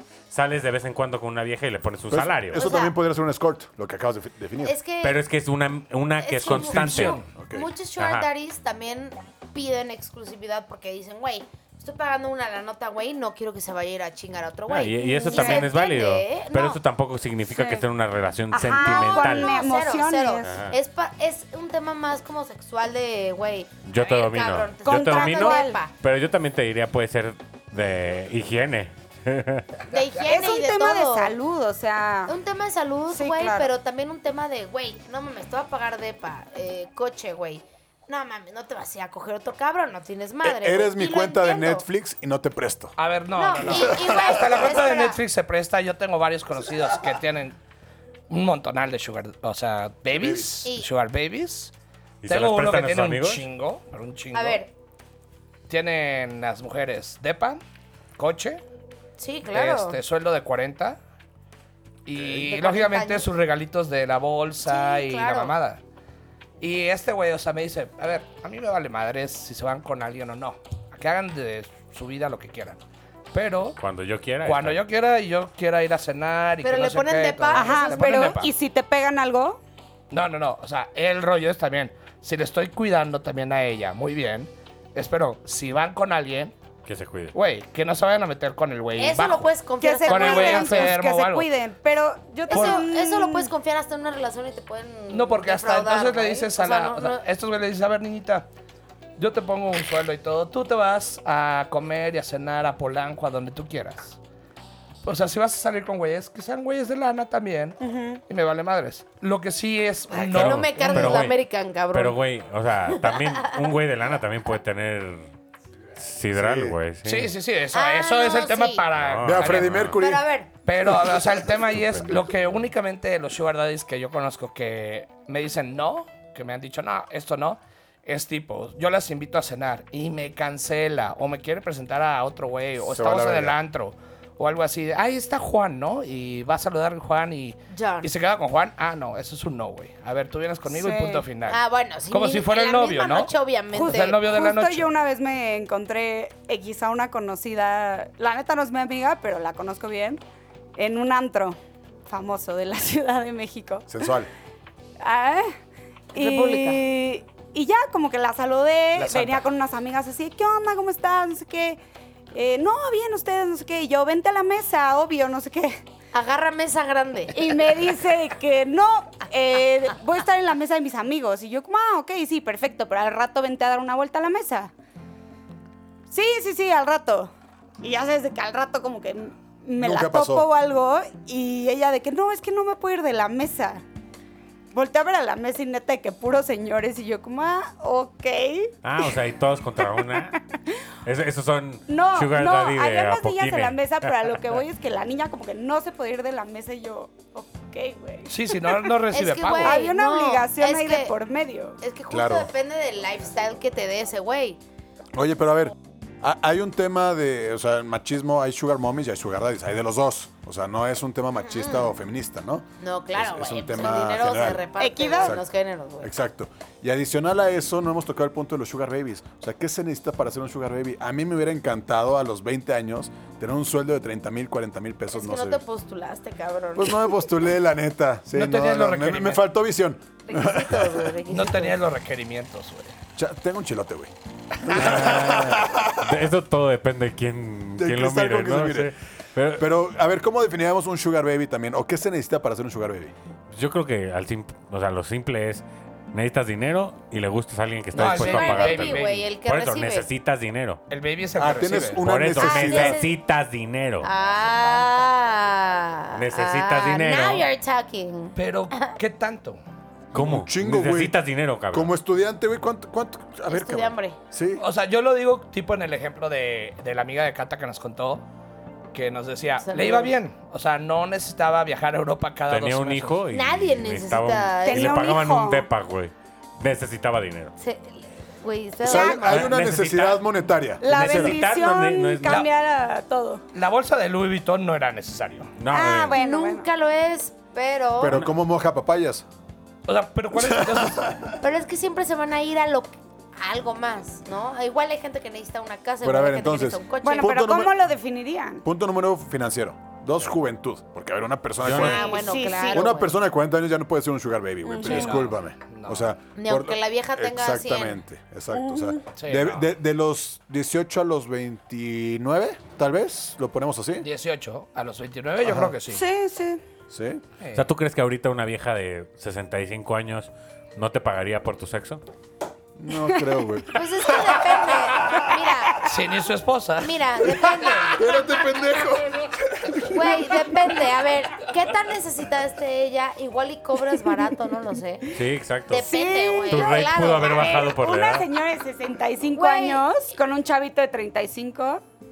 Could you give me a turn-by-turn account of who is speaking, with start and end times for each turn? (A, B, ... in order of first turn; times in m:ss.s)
0:00.3-0:02.7 A
0:02.1-0:04.8 B
0:02.6-0:02.9 C
0:04.6-0:05.2 C
0:05.0-0:07.2 A
0:06.2-0:16.8 C
0:06.5-0:07.3 D
0:07.4-0:07.7 B
0:08.0-0:08.3 A
0:14.7-0:19.5 A
0:15.2-0:15.7 E
0:17.5-0:17.8 E
0:18.5-0:20.6 E
0:18.8-0:25.9 C
0:20.4-0:20.8 A
0:23.8-0:29.7 A
0:24.8-0:25.8 E
0:29.9-0:31.4 C
0:30.2-0:32.4 E
0:32.3-0:41.9 C
0:33.1-0:33.7 E
0:40.4-0:43.0 B
0:43.0-0:47.6 D
0:43.4-0:45.2 C
0:48.3-0:51.7 D
0:50.1-0:50.6 B
0:50.6-0:50.9 C
0:52.2-0:53.5 A
0:52.3-0:54.6 D
0:54.3-0:54.7 C
0:55.7-0:57.6 D
0:58.2-0:58.6 D
0:59.2-1:00.0 C
0:59.5-1:01.0 D
1:02.1-1:05.8 D
1:02.2-1:03.3 C
1:04.7-1:05.6 C
1:06.6-1:12.8 D
1:13.3-1:13.8 D
1:13.8-1:14.8 A
1:14.4-1:18.5 D
1:16.6-1:18.4 C
1:17.5-1:19.6 E
1:20.1-1:26.6 D
1:26.9-1:27.3 A
1:27.3-1:29.5 D
1:29.0-1:31.0 C
1:29.8-1:33.5 E
1:30.1-1:31.5 D
1:32.5-1:37.2 C
1:32.5-1:32.8 D
1:35.1-1:38.5 D
1:39.2-1:44.2 D
1:45.0-1:51.3 D
1:47.8-1:48.2 E
1:50.1-1:52.2 C
1:50.3-1:51.4 A
1:51.9-1:55.3 A
1:53.0-1:53.7 C
1:56.0-1:57.3 A
1:56.3-1:56.8 B
1:57.0-1:59.9 D
1:57.7-1:58.8 C
1:58.9-2:00.0 A
1:59.2-2:00.3 B
2:00.0-2:00.5 C
2:00.7-2:24.9 D
2:12.8-2:13.6 B
2:17.7-2:18.1 C
2:20.7-2:21.3 E
2:21.5-2:24.2 C
2:23.7-2:30.2 E
2:30.8-2:34.0 E
2:33.9-2:34.3 B
2:35.0-2:35.6 E
2:36.1-2:41.8 E
2:36.2-2:36.8 C
2:39.0-2:39.4 D
2:42.3-2:45.8 E
2:46.1-2:47.6 C
2:47.3-2:54.7 E
2:56.1-3:03.8 E
2:59.8-3:00.5 B
3:04.7-3:09.1 E
3:08.8-3:10.4 A
3:09.8-3:10.8 E
3:11.0-3:14.4 A
3:11.9-3:18.8 E
3:18.3-3:19.9 D
3:19.1-3:21.1 C
3:19.6-3:21.8 E
3:21.8-3:24.6 C
3:22.1-3:22.5 B
3:25.1-3:34.6 B
3:31.4-3:31.9 C
3:32.8-3:36.1 C
3:34.8-3:35.4 E
3:35.2-3:35.4 B
3:36.0-3:45.6 B
3:45.1-3:47.0 C
3:46.8-3:51.2 B
3:48.3-3:49.4 D
3:50.3-3:51.8 C
3:51.3-3:53.0 D
3:53.2-3:56.3 B
3:54.7-3:59.7 A
3:57.8-3:58.9 B
3:59.6-4:03.1 B
4:03.5-4:10.8 A
4:07.9-4:09.3 D
4:08.0-4:10.1 C
4:10.9-4:12.0 D
4:11.4-4:13.0 B
4:11.9-4:14.1 A
4:12.4-4:13.2 C
4:14.0-4:19.0 C
4:16.1-4:17.5 A
4:18.4-4:19.6 D
4:20.1-4:21.2 B
4:20.1-4:21.9 A
4:21.7-4:24.6 B
4:23.5-4:24.2 C
4:24.6-4:28.2 D
4:28.9-4:33.2 D
4:29.6-4:30.1 C
4:32.5-4:37.5 A
4:33.3-4:35.1 C
4:34.6-4:35.7 E
4:37.6-4:39.6 C
4:38.8-4:41.4 B
4:39.1-4:40.3 A
4:40.8-4:43.4 E
4:40.9-4:42.4 A
4:43.5-4:45.6 D
4:45.6-4:46.2 A
4:45.7-4:46.7 E
4:46.2-4:48.2 C
4:48.0-4:49.3 B
4:49.9-4:51.2 D
4:50.4-4:51.2 B
4:51.4-4:57.4 C
4:56.0-4:57.8 B
4:57.0-4:58.6 E
4:58.6-5:02.2 B
5:01.6-5:02.0 A
5:01.7-5:03.2 C
5:01.8-5:02.9 E
5:02.7-5:14.1 B
5:04.6-5:05.2 E
5:04.8-5:06.1 D
5:06.4-5:08.0 C
5:08.5-5:09.1 E
5:09.2-5:09.7 D
5:14.0-5:16.0 D
5:15.4-5:15.7 B
5:15.9-5:16.6 E
5:16.9-5:17.2 B
5:17.4-5:17.7 D
5:17.5-5:22.0 A
5:22.8-5:25.2 B
5:23.7-5:25.8 C
5:25.8-5:27.0 D
5:26.8-5:28.0 C
5:27.9-5:30.4 B
5:29.9-5:35.1 C
5:35.1-5:35.9 A
5:35.7-5:37.7 C
5:35.8-5:41.8 E
5:36.5-5:38.3 A
5:39.3-5:40.1 C